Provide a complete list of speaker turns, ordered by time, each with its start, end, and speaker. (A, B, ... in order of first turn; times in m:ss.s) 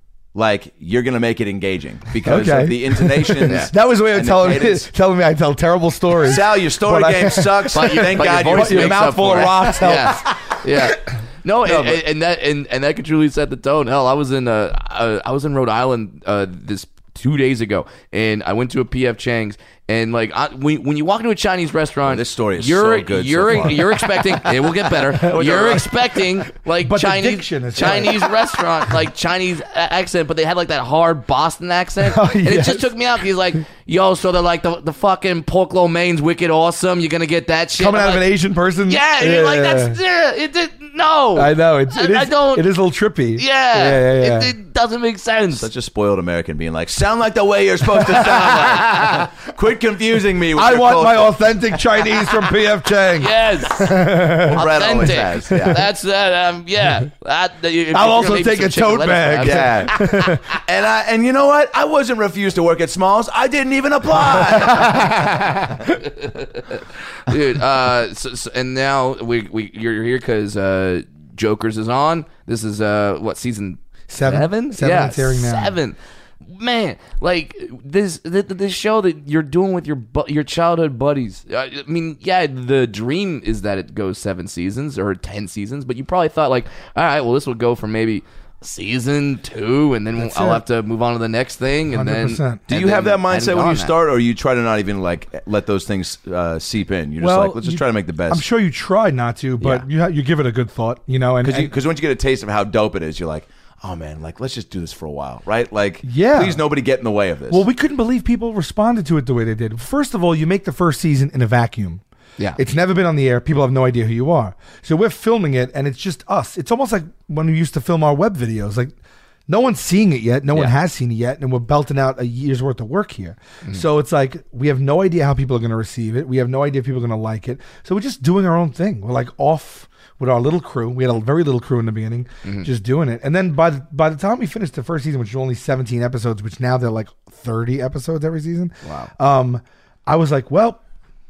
0:00.4-0:04.9 A
0:02.2-0:10.3 B
0:06.2-0:09.8 A
0:07.7-0:38.3 C
0:11.7-0:12.0 A
0:22.1-0:24.5 A
0:25.1-0:25.6 B
0:25.1-0:25.9 A
0:26.8-0:28.4 B
0:32.0-0:32.9 B
0:37.8-0:40.0 B
0:38.9-0:42.7 C
0:41.4-0:44.6 B
0:43.4-0:45.7 C
0:45.5-0:51.8 A
0:48.2-0:48.4 B
0:49.0-0:49.2 C
0:50.5-0:55.8 B
0:53.2-0:59.9 C
0:54.5-0:55.8 A
0:57.9-1:00.5 B
0:59.4-1:05.5 A
1:04.6-1:05.4 B
1:06.0-1:34.0 C
1:14.1-1:15.8 B
1:30.2-1:30.6 B
1:31.9-1:32.6 B
1:32.7-1:38.4 A
1:37.2-1:41.7 B
1:41.4-1:47.6 A
1:46.0-1:46.6 B
1:47.5-1:52.0 B
1:52.6-1:58.9 B
1:59.5-2:20.8 B
2:18.8-2:19.1 C